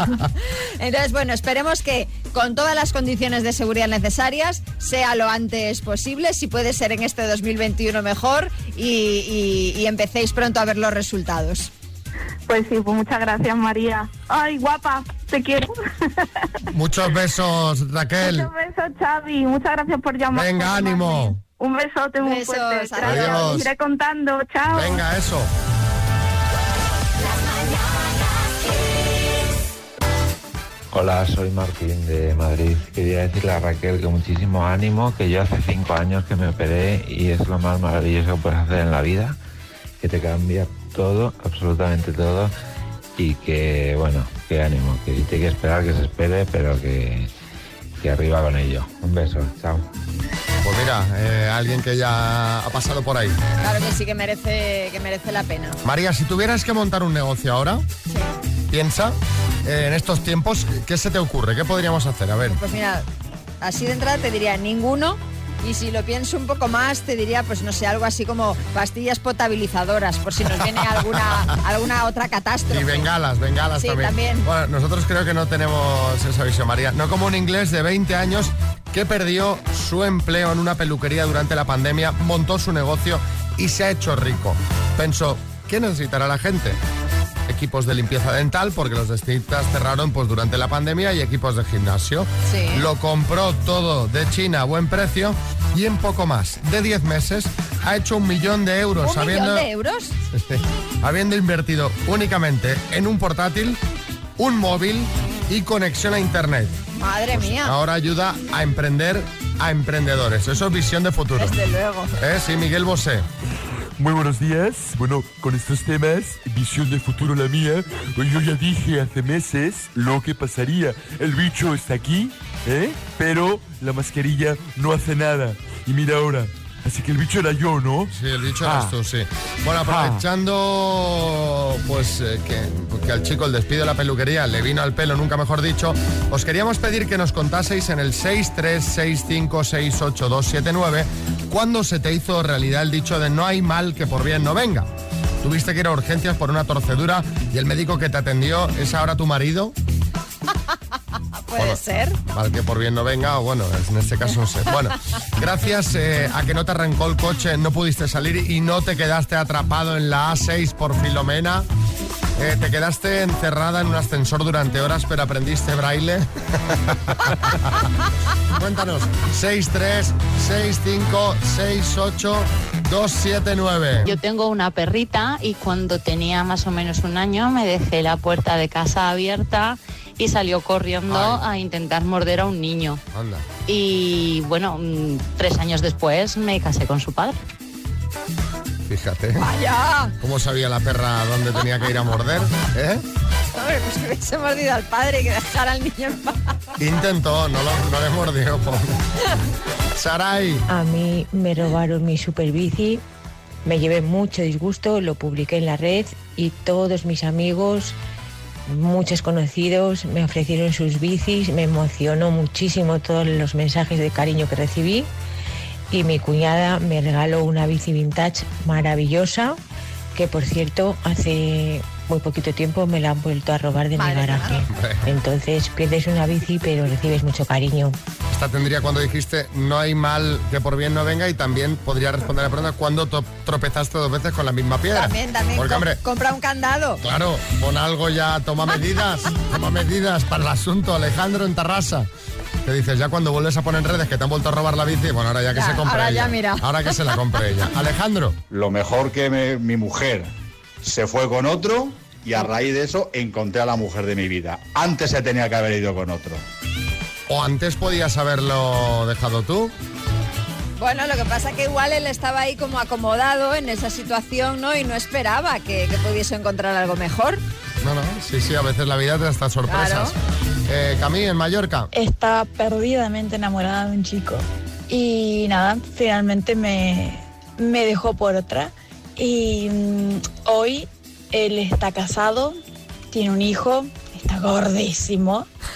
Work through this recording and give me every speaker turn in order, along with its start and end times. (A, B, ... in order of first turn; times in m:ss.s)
0:00.8-0:11.7 A
0:12.5-0:16.4 B
0:16.7-0:18.5 C
0:18.2-0:25.0 B
0:20.3-0:21.4 C
0:22.2-0:23.7 A
0:23.0-0:23.7 C
0:24.7-0:25.5 C
0:30.9-0:39.4 D
0:40.0-0:42.5 D
0:43.2-0:47.3 D
0:48.0-0:49.9 D
0:50.6-0:53.4 C
0:53.6-0:55.8 A
0:55.8-0:57.8 C
0:58.7-1:02.6 C
1:02.5-1:03.0 A
1:03.6-1:13.1 A
1:10.8-1:11.4 C
1:12.7-1:26.8 C
1:13.8-1:14.5 A
1:27.5-1:39.7 C
1:32.5-1:32.8 A
1:39.0-1:40.2 A
1:40.3-1:43.8 C
1:44.4-1:46.8 C
1:47.0-1:47.8 A
1:47.3-1:51.6 C
1:51.4-1:52.2 A
1:52.2-1:53.2 C
1:54.0-2:08.1 E
2:08.1-2:24.9 C
2:08.6-2:08.9 E
2:09.9-2:10.2 E
2:25.4-2:29.8 C
2:31.5-2:32.2 A
2:31.6-2:41.7 C
2:42.4-2:47.8 C
2:48.5-2:54.1 C
2:54.0-3:03.0 F
3:01.1-3:01.4 C
3:03.1-3:03.5 C
3:03.7-3:07.4 F
3:08.9-3:09.5 C
3:09.4-3:10.1 A
3:10.2-3:13.0 C
3:13.5-3:16.4 A
3:16.8-3:19.0 C
3:19.9-3:20.6 C
3:20.7-3:23.0 G
3:23.6-3:28.0 G
3:28.7-3:35.1 G
3:35.9-3:39.6 G
3:40.1-3:48.0 G
3:44.0-3:44.6 A
3:44.7-3:45.1 C
3:48.3-3:56.0 C
3:55.0-3:57.0 A
3:57.0-4:02.1 C
4:02.6-4:08.4 C
4:05.5-4:07.0 A
4:08.5-4:10.3 H
4:10.8-4:16.4 H
4:17.3-4:19.7 C
4:20.8-4:27.4 A
4:27.8-4:30.2 C
4:29.7-4:30.1 A
4:30.7-4:31.9 C
4:31.9-4:42.6 I
4:43.1-4:45.5 I